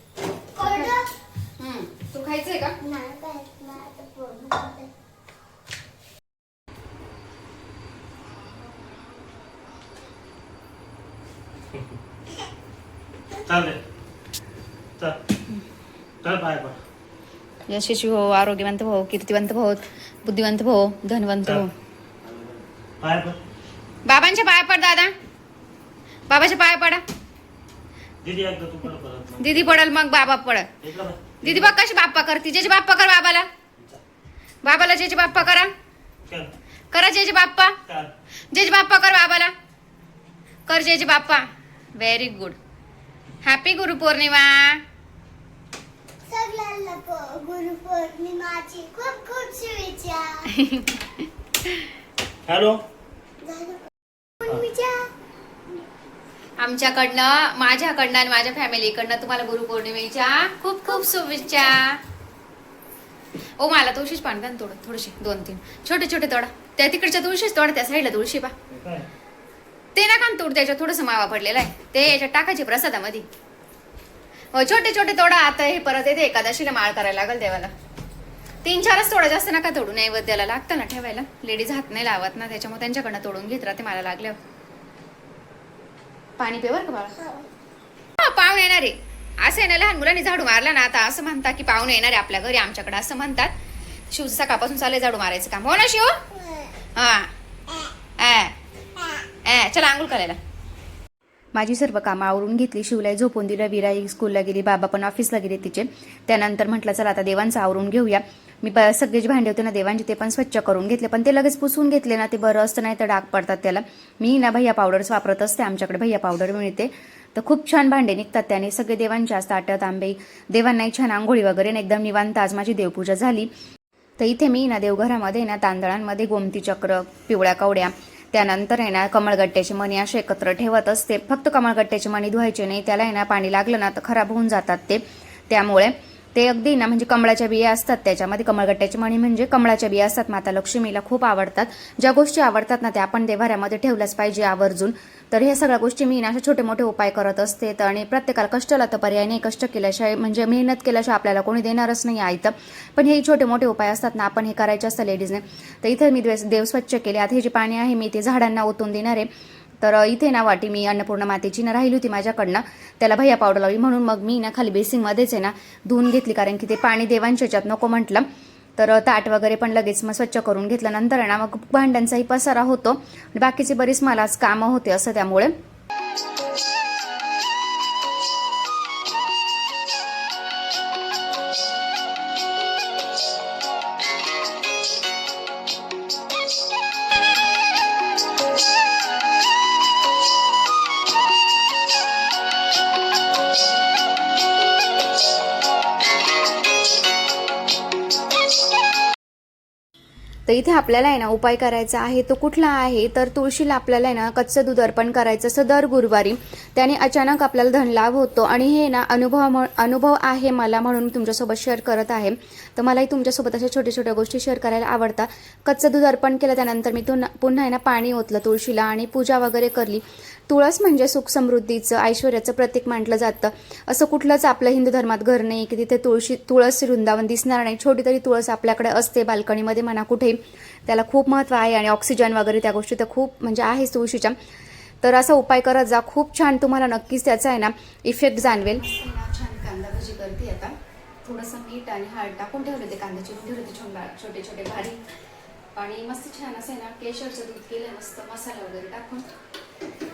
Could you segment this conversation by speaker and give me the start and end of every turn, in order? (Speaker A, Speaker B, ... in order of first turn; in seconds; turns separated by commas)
Speaker A: 0.6-1.1, Speaker B: 0.6-2.8, Speaker A: 2.8-4.9, Speaker C: 13.4-13.8, Speaker C: 16.2-16.8, Speaker B: 17.7-21.7, Speaker C: 22.2-23.4, Speaker B: 24.1-25.1, Speaker B: 26.3-27.0, Speaker C: 28.2-29.8, Speaker B: 29.4-30.7, Speaker C: 30.8-31.7, Speaker B: 31.4-33.5, Speaker B: 34.6-35.7, Speaker B: 36.9-37.8, Speaker B: 38.5-39.5, Speaker B: 40.7-42.6, Speaker B: 43.4-44.8, Speaker A: 46.3-50.5, Speaker B: 50.5-51.8, Speaker C: 52.5-52.8, Speaker A: 53.4-55.1, Speaker B: 56.6-62.0, Speaker B: 63.6-68.5, Speaker C: 68.8-69.0, Speaker B: 69.9-73.3, Speaker B: 74.5-77.7, Speaker B: 78.6-84.4, Speaker B: 86.4-87.3, Speaker A: 87.2-87.5, Speaker B: 88.2-93.5, Speaker B: 94.1-96.2, Speaker B: 96.9-97.3, Speaker B: 98.2-98.5, Speaker B: 99.4-100.4, Speaker B: 101.5-123.5, Speaker B: 124.2-159.3, Speaker B: 159.8-168.2, Speaker B: 168.8-175.5, Speaker B: 200.4-234.3, Speaker B: 235.0-245.0, Speaker B: 245.8-249.3